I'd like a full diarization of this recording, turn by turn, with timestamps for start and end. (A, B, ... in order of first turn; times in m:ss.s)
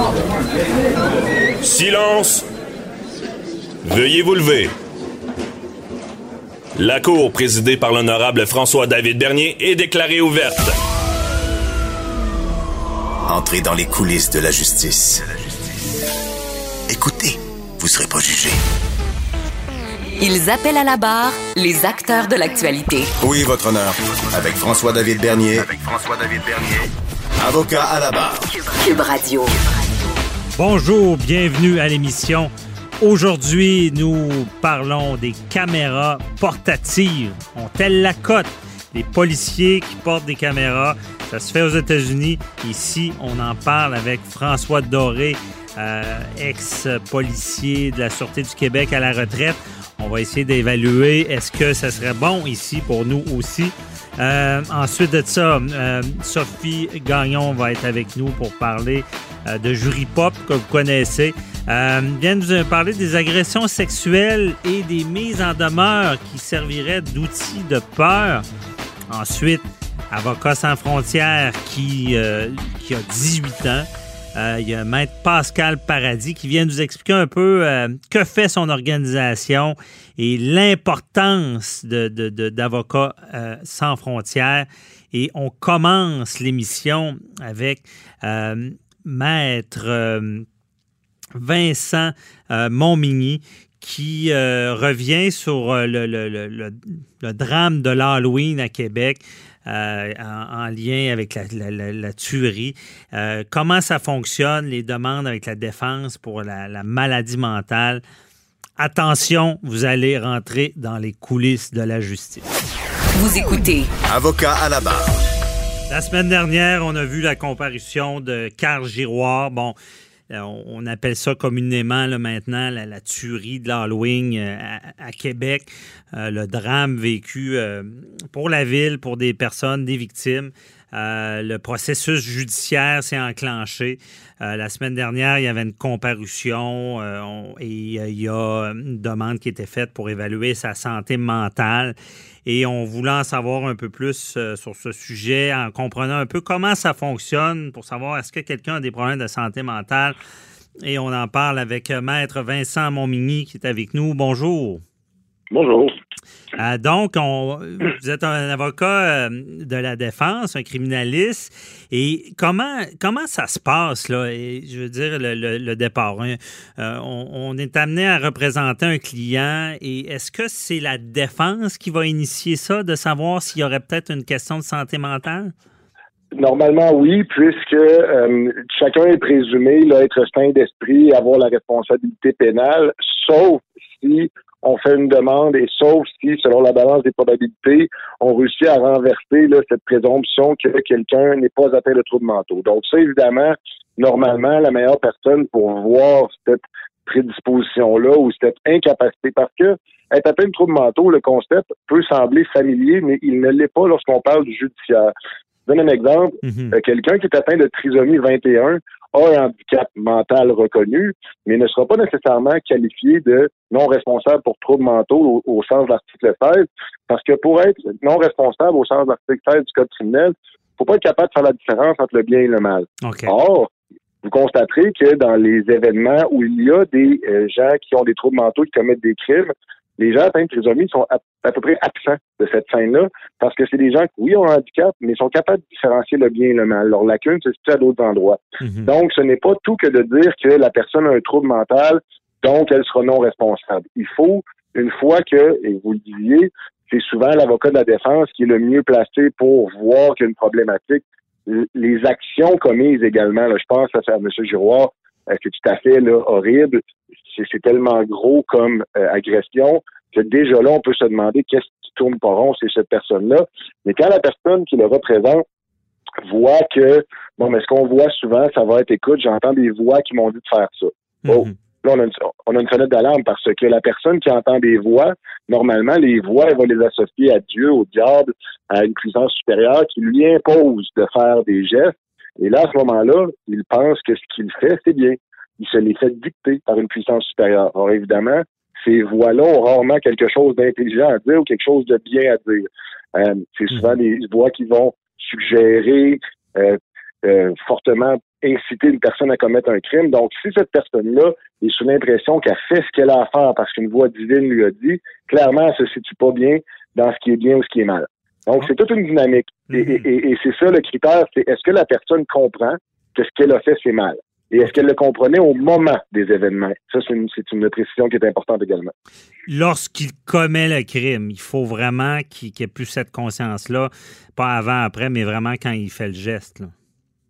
0:01.6-0:02.4 A
0:03.8-0:04.7 A
0:06.8-0:10.7 A
0:13.3-0:15.8 B
0:16.9-0:18.6 B
0:20.2-0:23.1 C
0:23.2-0:26.9 B
0:27.4-0:28.5 B
0:28.5-0:30.1 C
0:30.6-1:08.4 D
1:09.1-1:30.5 D
1:31.4-1:48.0 D
1:48.8-1:52.5 D
1:53.2-1:53.9 C
1:54.1-1:55.2 B
1:55.9-1:59.8 D
2:00.3-2:22.0 D
2:22.5-2:30.2 D
2:30.8-2:34.8 D
2:35.5-2:36.0 E
2:36.6-2:55.5 D
2:56.4-3:25.1 E
3:25.7-3:43.7 E
3:26.4-3:26.8 D
3:43.0-3:43.3 D
3:44.2-4:25.4 E
3:58.6-3:58.9 D
4:26.2-5:18.9 E
4:31.3-4:31.5 D
5:09.7-5:10.0 D
5:19.5-5:26.7 D